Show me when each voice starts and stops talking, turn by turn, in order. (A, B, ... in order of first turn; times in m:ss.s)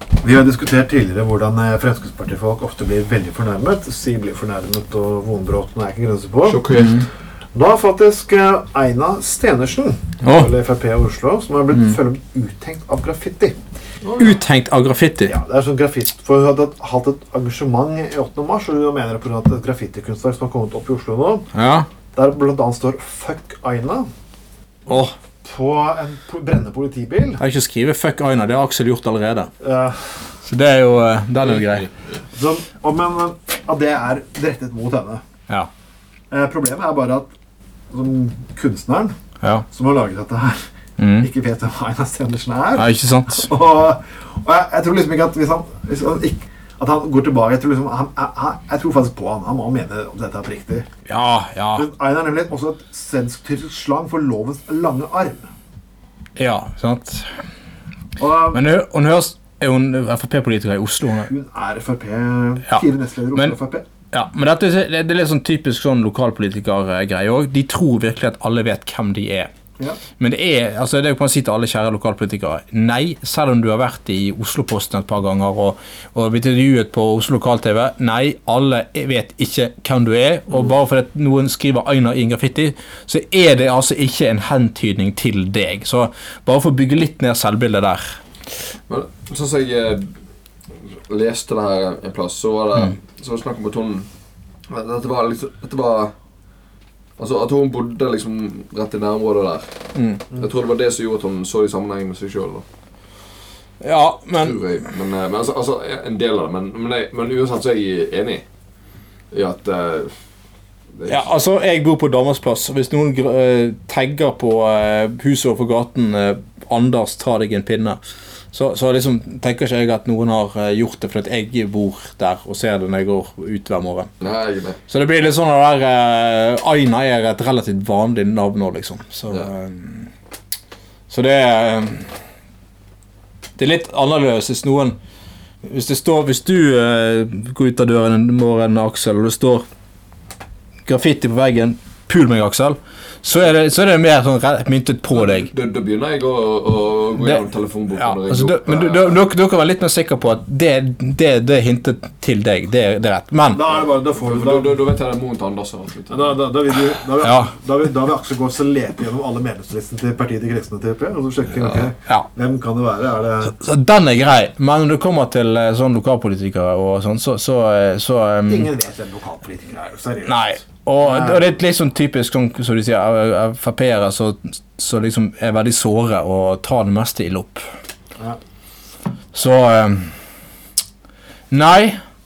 0:00.2-0:06.7 A
0:06.4-0:07.1 B
0:07.6-0:13.6 A
0:10.2-0:10.5 C
0:14.0-0:14.4 B
0:14.2-0:15.3 C
0:15.2-0:21.4 A
0:21.5-0:21.9 C
0:22.1-0:24.1 A
0:24.9-0:25.2 C
0:25.4-0:27.4 A
0:27.4-0:29.5 C
0:29.6-0:30.2 A
0:30.4-0:31.9 C
0:32.3-0:35.2 A
0:36.3-0:37.3 A
0:37.9-0:39.2 A
0:39.7-0:40.6 A
0:41.0-0:41.3 C
0:41.2-0:50.9 A
0:42.8-0:43.5 C
0:51.1-0:51.9 C
0:51.8-0:55.5 A
0:56.4-0:57.3 C
0:58.2-0:58.6 A
0:58.5-1:01.3 C
1:01.3-1:03.8 A
1:04.1-1:09.5 C
1:10.2-1:28.2 C
1:28.9-1:30.1 B
1:31.1-1:34.1 B
1:34.7-1:36.1 B
1:37.2-1:39.7 B
1:40.0-1:40.3 C
1:40.3-1:42.6 B
1:43.8-1:44.7 C
1:44.4-1:48.4 B
1:49.3-1:50.1 B
1:51.0-1:51.3 B
1:51.1-1:58.0 C
1:58.5-2:04.1 C
2:04.2-2:04.8 B
2:04.9-2:10.1 C
2:11.1-2:12.1 C
2:13.6-2:15.0 C
2:15.6-2:19.6 C
2:20.9-2:25.5 C
2:25.1-2:29.2 B
2:28.0-2:33.6 C
2:33.5-2:34.8 A
2:34.0-2:36.4 B
2:36.1-2:43.6 A
2:37.2-2:37.5 C
2:43.5-2:48.7 C
2:48.5-2:50.5 A
2:50.2-2:57.6 C
2:51.0-2:51.5 A
2:59.3-3:00.1 C
3:01.5-3:02.0 C